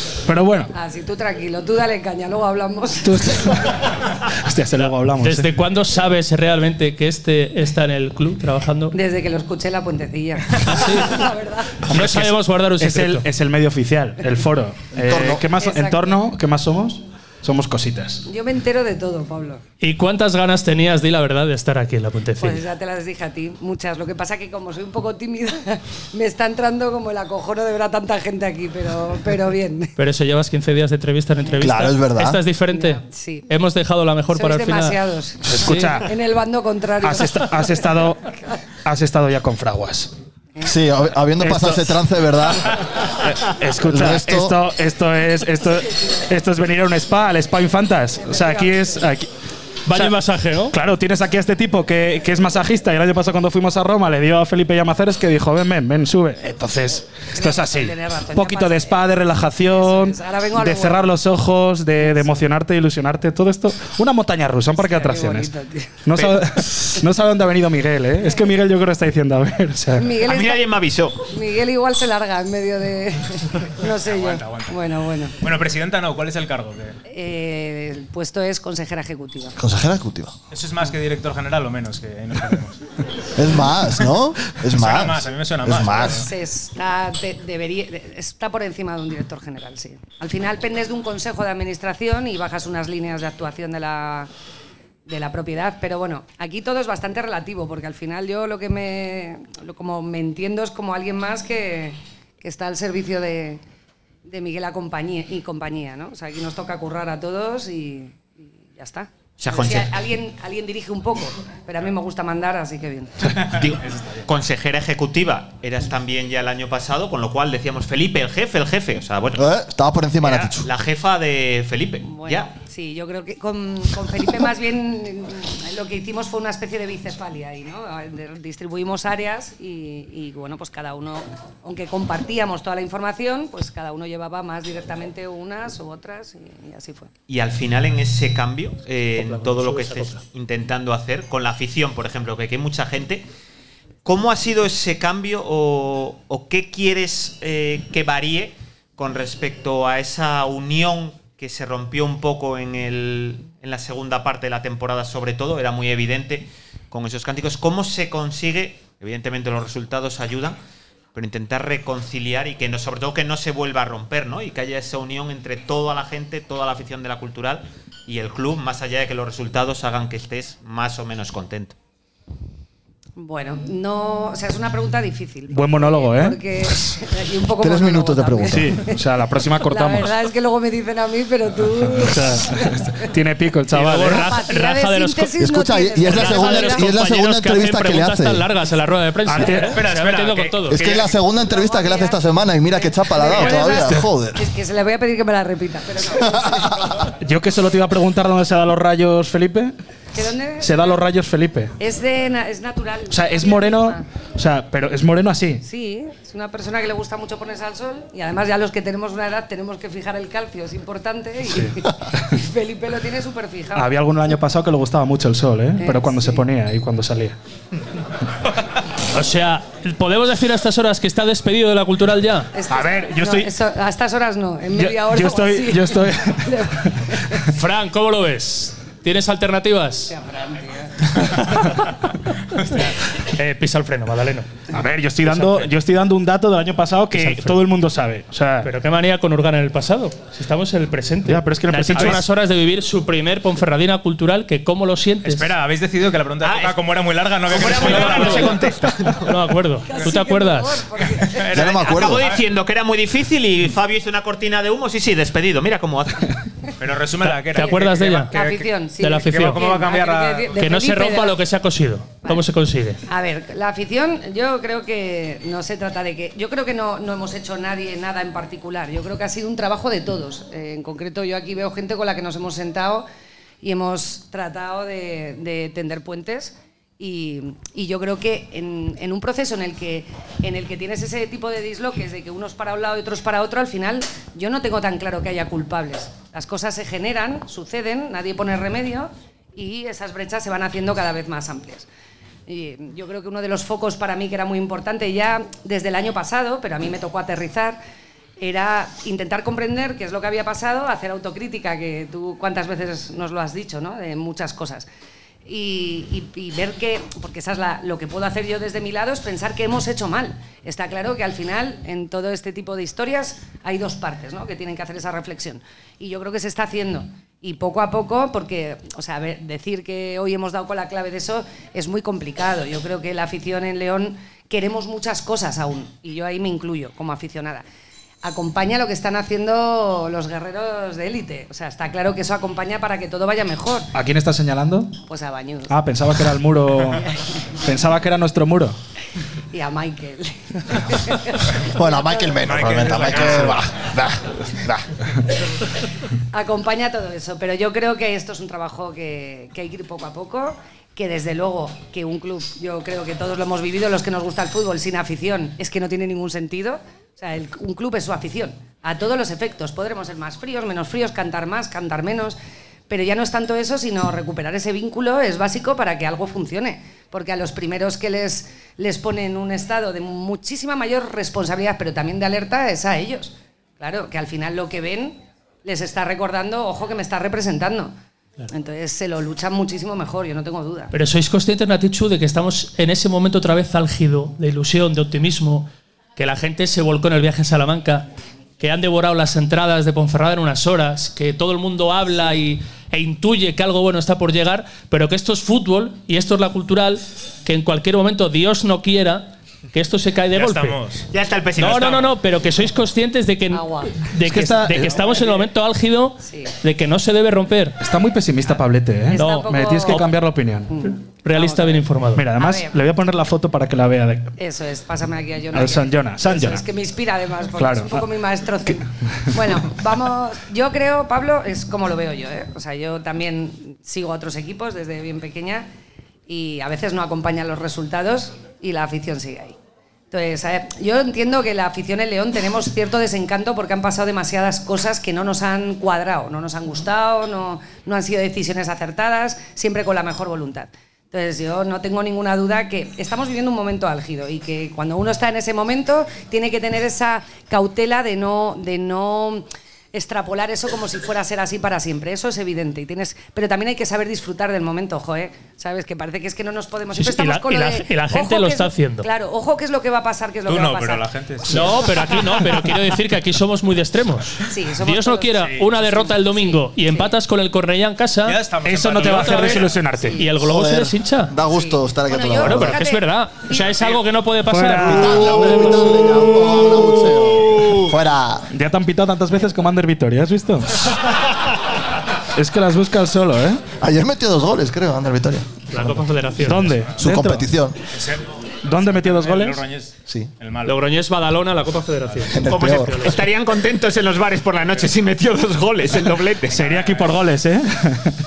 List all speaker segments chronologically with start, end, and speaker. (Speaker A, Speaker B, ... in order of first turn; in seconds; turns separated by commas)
Speaker A: 0.3-0.7, Speaker B: 0.7-3.2, Speaker A: 3.0-5.5, Speaker C: 4.8-8.9, Speaker B: 8.9-11.9, Speaker C: 10.6-11.2, Speaker C: 11.9-13.3, Speaker A: 11.9-18.2, Speaker D: 15.0-15.4, Speaker B: 15.5-16.2, Speaker B: 18.3-19.6, Speaker C: 19.8-22.6, Speaker B: 22.4-29.9, Speaker C: 30.0-35.0, Speaker D: 31.6-32.4, Speaker B: 32.7-33.5, Speaker B: 34.3-38.3, Speaker A: 35.4-36.1, Speaker C: 35.5-36.0, Speaker A: 37.0-38.3, Speaker A: 38.9-40.1, Speaker D: 40.6-42.9, Speaker A: 41.4-42.0, Speaker A: 43.0-49.3, Speaker D: 43.9-44.6, Speaker B: 48.3-49.0, Speaker C: 49.9-50.8, Speaker A: 50.7-65.5, Speaker B: 57.3-61.1, Speaker B: 62.0-62.4, Speaker B: 64.8-66.0, Speaker A: 66.0-70.2, Speaker B: 70.0-70.7, Speaker E: 70.2-71.2, Speaker B: 71.3-75.3, Speaker F: 74.0-74.8, Speaker F: 75.4-77.0, Speaker B: 77.1-79.6, Speaker D: 79.6-80.3, Speaker F: 80.5-82.8, Speaker D: 83.3-86.3, Speaker F: 84.7-86.3, Speaker B: 86.2-94.3, Speaker B: 95.1-103.6, Speaker B: 104.2-113.3, Speaker E: 109.4-110.0, Speaker E: 113.3-119.5, Speaker F: 113.4-114.2, Speaker D: 119.3-120.7, Speaker E: 120.2-122.5, Speaker B: 122.0-137.1, Speaker E: 137.3-143.2, Speaker E: 144.1-160.6, Speaker E: 161.2-171.8, Speaker B: 173.2-179.0, Speaker A: 175.5-176.4, Speaker D: 177.6-178.8, Speaker A: 178.5-180.2, Speaker B: 179.6-183.1, Speaker A: 181.9-184.3, Speaker C: 183.7-185.3, Speaker B: 184.1-186.9, Speaker D: 185.4-188.4, Speaker C: 186.1-190.8, Speaker A: 189.3-189.8, Speaker F: 189.5-191.1, Speaker D: 190.7-194.5, Speaker B: 191.3-197.1, Speaker D: 196.3-196.7, Speaker A: 197.2-199.7, Speaker B: 200.1-201.0, Speaker A: 200.6-201.7, Speaker B: 201.8-204.1, Speaker A: 203.1-205.6, Speaker B: 205.6-213.9, Speaker A: 211.5-212.4, Speaker A: 213.8-217.3, Speaker B: 215.8-216.4, Speaker C: 219.1-222.5, Speaker B: 222.5-227.5, Speaker A: 222.7-223.5, Speaker A: 224.7-227.2, Speaker C: 227.5-230.1, Speaker B: 230.1-231.1, Speaker F: 232.6-232.9, Speaker C: 233.3-234.5, Speaker A: 234.7-238.7, Speaker C: 235.3-235.7, Speaker C: 237.1-237.6, Speaker C: 238.6-245.5, Speaker A: 241.3-242.2, Speaker F: 245.2-249.1, Speaker E: 246.4-246.8, Speaker E: 247.5-249.2, Speaker C: 247.7-248.6, Speaker C: 249.2-250.8, Speaker B: 249.9-251.7, Speaker F: 251.2-252.4, Speaker D: 251.5-252.3, Speaker E: 251.8-256.4, Speaker F: 256.8-258.7, Speaker C: 257.5-258.4, Speaker B: 257.6-261.4, Speaker C: 259.0-259.6, Speaker F: 259.2-260.6, Speaker C: 260.6-263.0, Speaker B: 263.1-273.1, Speaker B: 273.6-291.9, Speaker B: 292.5-297.8, Speaker B: 298.4-304.9, Speaker B: 305.4-327.6, Speaker B: 328.2-333.9, Speaker A: 333.9-335.0, Speaker B: 335.1-335.8, Speaker A: 335.7-337.1, Speaker A: 337.6-338.8, Speaker B: 339.5-342.5, Speaker D: 341.6-344.9, Speaker F: 342.4-343.7, Speaker B: 346.3-362.4, Speaker B: 362.9-377.9, Speaker B: 378.5-380.9, Speaker C: 380.9-388.1, Speaker C: 388.6-400.8, Speaker F: 400.3-401.1, Speaker E: 401.1-402.1, Speaker C: 401.6-407.8, Speaker F: 401.6-402.0, Speaker B: 403.5-404.1, Speaker A: 404.2-405.1, Speaker B: 406.2-406.5, Speaker A: 407.8-410.7, Speaker B: 409.1-410.2, Speaker C: 409.1-410.1, Speaker B: 410.7-412.8, Speaker C: 411.2-412.3, Speaker A: 412.1-414.3, Speaker B: 414.4-425.7, Speaker A: 415.5-416.6, Speaker A: 417.6-418.1, Speaker A: 418.7-419.8, Speaker B: 426.3-429.6, Speaker B: 430.1-461.1, Speaker C: 456.9-459.1, Speaker F: 460.5-461.9, Speaker C: 461.5-468.4, Speaker B: 464.5-467.1, Speaker F: 468.3-469.8, Speaker A: 468.6-470.2, Speaker C: 468.9-471.3, Speaker B: 470.0-470.3, Speaker D: 470.4-472.8, Speaker B: 471.5-474.0, Speaker C: 472.4-475.2, Speaker A: 474.4-476.9, Speaker D: 474.8-478.5, Speaker A: 478.5-481.0, Speaker A: 482.4-483.6, Speaker D: 483.8-485.5, Speaker C: 485.7-486.8, Speaker A: 486.4-487.5, Speaker D: 487.0-487.8, Speaker F: 487.9-490.8, Speaker A: 488.6-489.6, Speaker C: 490.6-493.2, Speaker D: 492.3-493.1, Speaker E: 492.5-496.6, Speaker A: 496.5-498.2, Speaker F: 496.5-497.1